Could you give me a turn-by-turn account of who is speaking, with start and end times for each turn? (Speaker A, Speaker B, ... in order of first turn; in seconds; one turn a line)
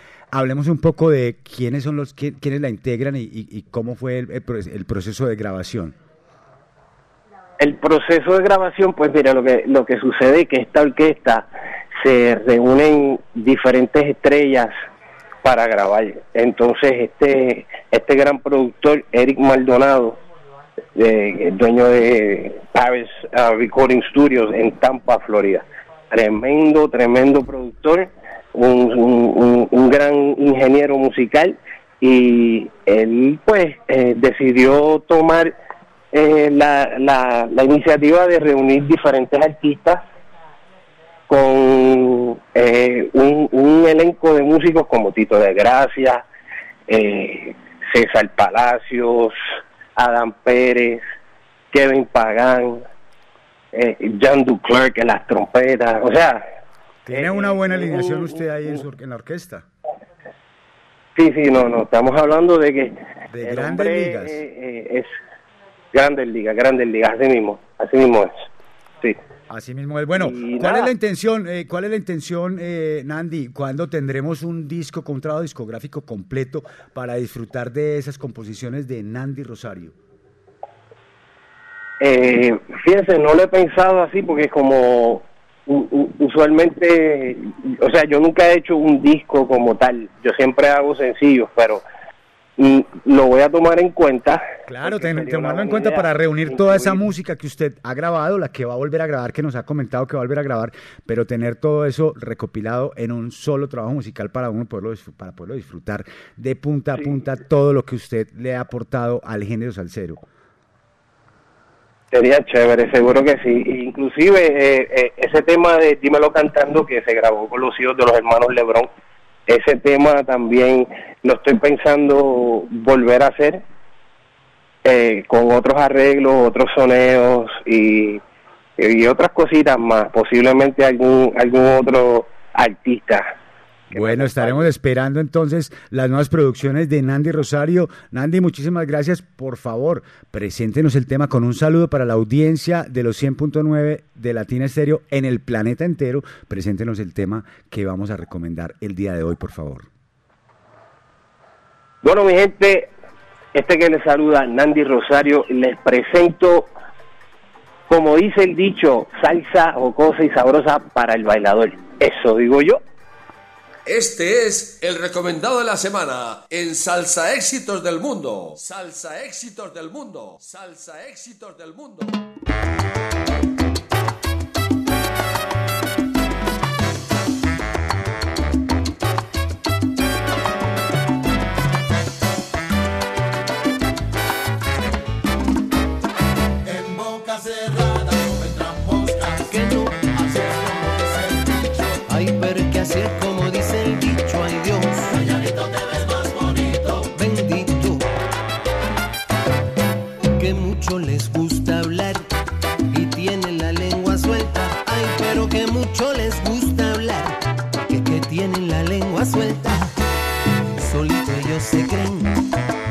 Speaker A: 0.3-5.9
Speaker B: 7.6-11.5
Speaker B: 12.0-14.7
Speaker B: 15.4-20.2
Speaker B: 20.9-35.5
Speaker B: 36.1-40.0
Speaker B: 41.3-46.2
Speaker B: 46.9-49.3
Speaker B: 50.0-51.0
Speaker B: 51.7-52.8
Speaker B: 53.7-56.4
Speaker A: 57.0-59.6
Speaker B: 57.1-58.4
Speaker B: 61.1-65.1
Speaker A: 63.3-64.4
Speaker B: 65.9-68.3
Speaker A: 69.5-79.9
Speaker B: 70.2-70.9
Speaker B: 82.0-91.8
Speaker B: 92.6-97.0
Speaker A: 94.7-110.2
Speaker B: 112.1-118.9
Speaker B: 119.5-123.6
Speaker B: 124.8-128.2
Speaker B: 128.8-133.3
Speaker B: 133.9-134.7
Speaker A: 133.9-149.9
Speaker B: 152.0-152.9
Speaker B: 153.5-156.7
Speaker B: 157.9-162.8
Speaker C: 163.8-172.1
Speaker D: 189.4-191.0
Speaker D: 192.1-195.1
Speaker D: 197.1-198.1
Speaker D: 200.3-202.2
Speaker D: 202.9-209.9
Speaker D: 210.8-212.4